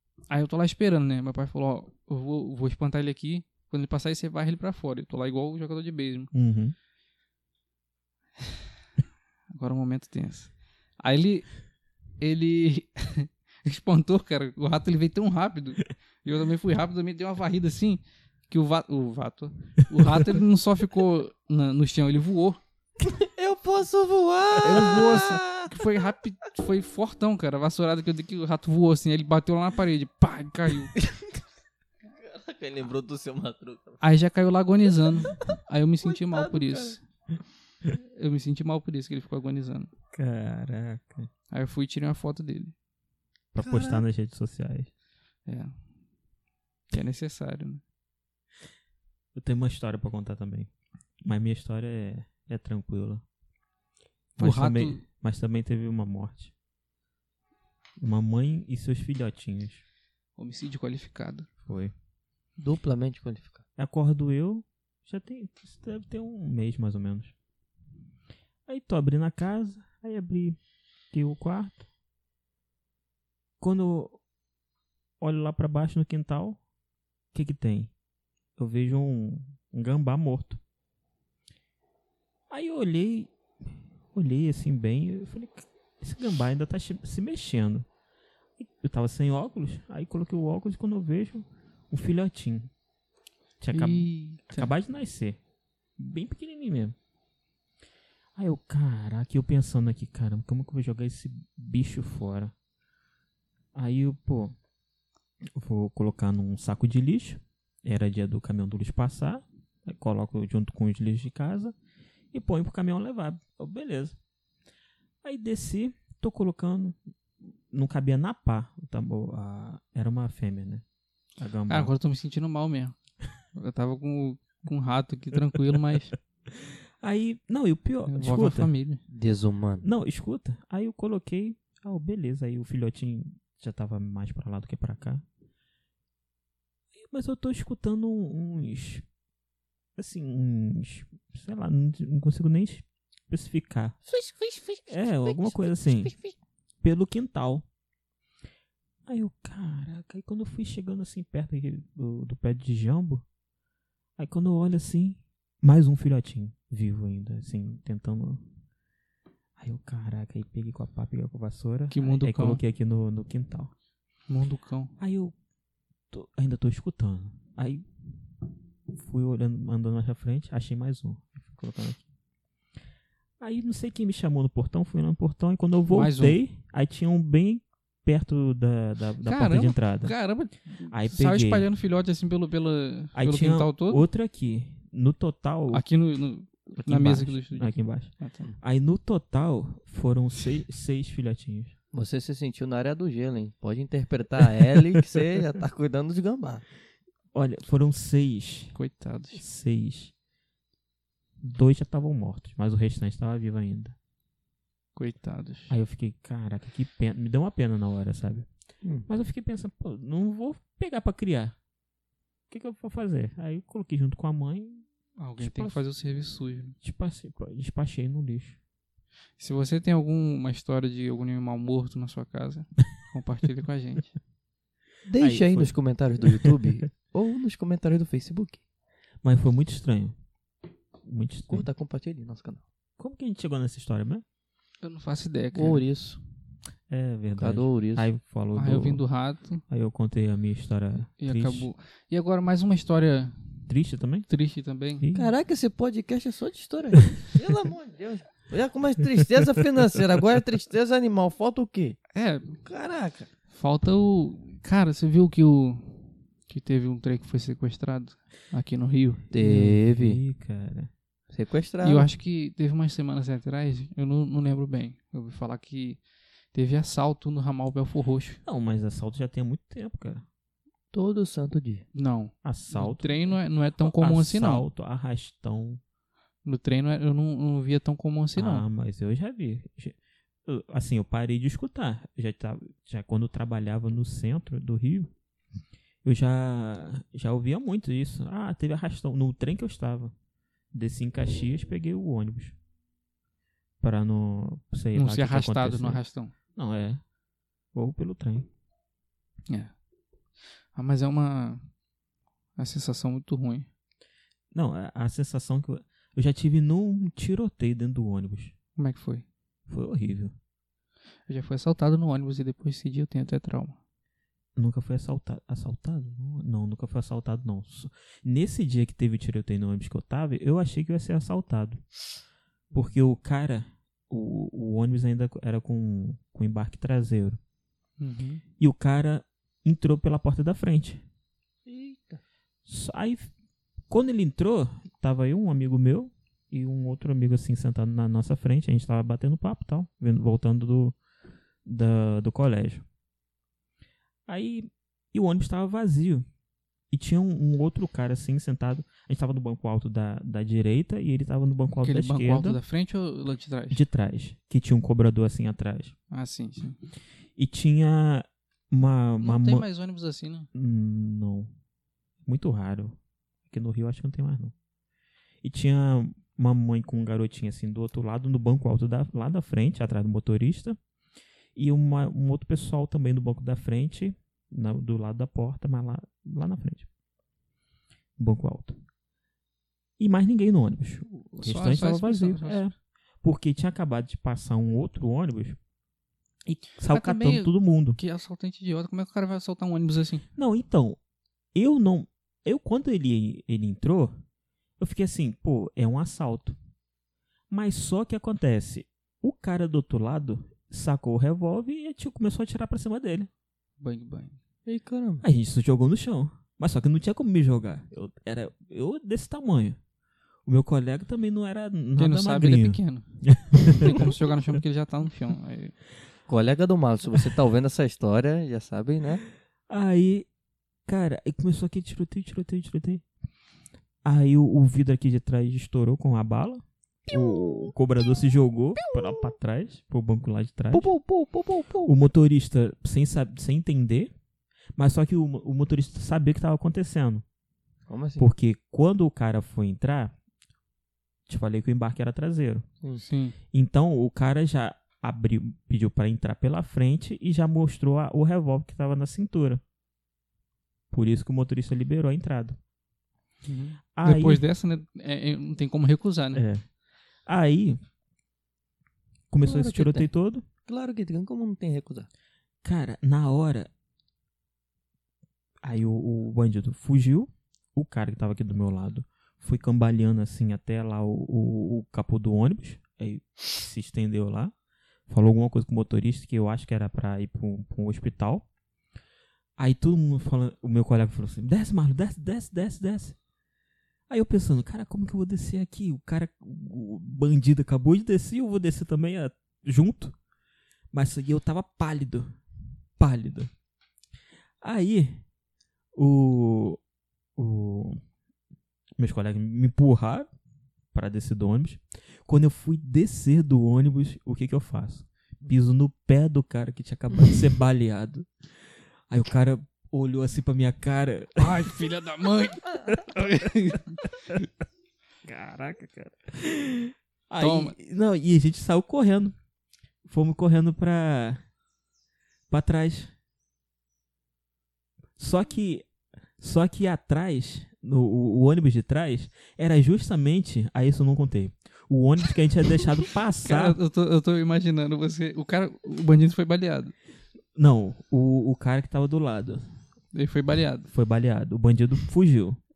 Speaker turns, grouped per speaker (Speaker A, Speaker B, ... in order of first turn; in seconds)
Speaker A: 0.3-6.3, 9.5-11.5, 12.2-22.6, 24.6-31.0, 34.0-37.0, 38.0-39.9, 41.5-42.7, 45.5-45.7, 46.9-47.8, 54.4-55.0, 60.4-61.5, 93.7-94.7, 121.7-123.0, 123.5-126.2, 128.1-129.0, 144.1-145.4, 161.9-162.6, 164.3-164.9, 175.9-176.4, 179.2-184.0, 185.7-188.5, 198.7-199.4, 205.0-205.8, 215.2-216.8, 219.4-224.2, 234.8-235.8, 238.6-239.6, 241.2-243.4, 244.3-245.1, 252.1-252.6, 253.5-259.3, 261.8-266.0, 266.5-268.4, 271.9-274.6, 276.4-278.7, 294.9-296.3, 300.8-301.6, 302.6-303.7, 308.8-309.2, 311.3-313.8, 328.0-328.4, 351.8-353.8, 356.1-356.8, 359.2-360.5, 381.3-382.6, 386.9-390.2, 403.8-404.4, 412.0-415.8, 443.0-443.4, 453.5-456.4, 511.4-514.0, 517.4-517.8, 533.4-537.0, 540.1-540.9
Speaker B: 6.3-6.8, 40.1-41.3, 43.5-44.9, 49.4-50.7, 51.2-53.2, 54.4-56.5, 58.0-59.8, 61.7-61.9, 63.8-67.3, 68.7-70.6, 71.1-71.8, 73.6-74.2, 75.2-76.6, 77.3-77.9, 78.6-80.6, 82.5-87.9, 88.6-92.7, 93.6-95.4, 96.0-97.0, 98.4-102.5, 103.8-104.5, 105.5-111.8, 112.3-114.2, 115.2-117.0, 117.7-120.8, 121.4-121.9, 126.5-128.7, 129.8-135.2, 137.0-139.1, 140.0-144.0, 144.9-146.1, 146.8-147.7, 149.1-153.2, 154.2-158.4, 159.6-163.7, 165.0-165.3, 166.1-167.8, 168.9-172.0, 173.4-180.2, 180.9-181.7, 183.2-185.8, 186.8-191.7, 197.3-198.7, 199.3-200.1, 201.4-204.0, 205.7-208.5, 209.1-211.6, 212.5-214.9, 215.4-215.8, 216.8-218.6, 225.2-226.7, 229.2-230.2, 231.0-231.7, 233.0-234.2, 236.9-239.1, 239.7-241.7, 243.7-244.3, 245.0-245.3, 259.4-260.9, 268.4-270.3, 272.4-275.8, 278.4-285.1, 286.0-290.1, 290.7-292.6, 293.8-296.0, 296.6-297.0, 297.7-298.5, 304.5-308.5, 309.7-310.4, 314.6-321.9, 322.7-327.4, 328.6-331.0, 332.7-333.3, 333.9-341.0, 341.6-342.8, 344.3-346.3, 346.9-352.6, 353.7-355.9, 357.4-359.7, 360.5-361.5, 362.2-364.5, 365.4-370.8, 371.6-376.9, 378.2-378.8, 380.0-385.6, 386.5-388.0, 390.4-391.0, 391.5-394.2, 394.8-396.6, 397.5-403.3, 405.2-409.8, 410.5-414.1, 419.7-420.3, 420.9-423.0, 424.0-430.9, 431.8-434.1, 434.8-437.2, 438.2-440.1, 441.3-442.6, 443.5-449.6, 450.9-452.6, 454.0-454.4, 456.3-456.6, 457.3-457.8, 459.3-460.4, 462.6-463.7, 465.6-474.5, 475.1-478.5, 479.6-483.2, 484.1-490.2, 490.9-492.4, 493.0-493.5, 494.6-495.2, 495.9-496.8, 497.4-498.0, 499.0-500.3, 500.9-508.3, 509.1-511.7, 512.9-513.2, 515.2-519.4, 520.1-521.4, 522.5-523.1, 525.2-525.9, 526.4-533.8, 537.6-539.7, 540.9-542.6
Speaker C: 23.0-25.7, 31.0-31.4, 32.1-34.0, 36.0-37.0, 43.6-44.0, 62.6-63.6, 129.1-129.9, 191.9-196.6, 208.8-209.1, 225.1-228.6, 231.5-232.7, 235.5-236.2, 237.4-238.1, 245.2-252.0, 252.6-253.3, 259.3-260.2, 261.3-262.1, 270.9-271.9, 331.7-332.2, 404.7-405.2, 416.3-419.2, 430.7-431.9, 437.9-438.3, 459.4-460.1, 460.6-462.1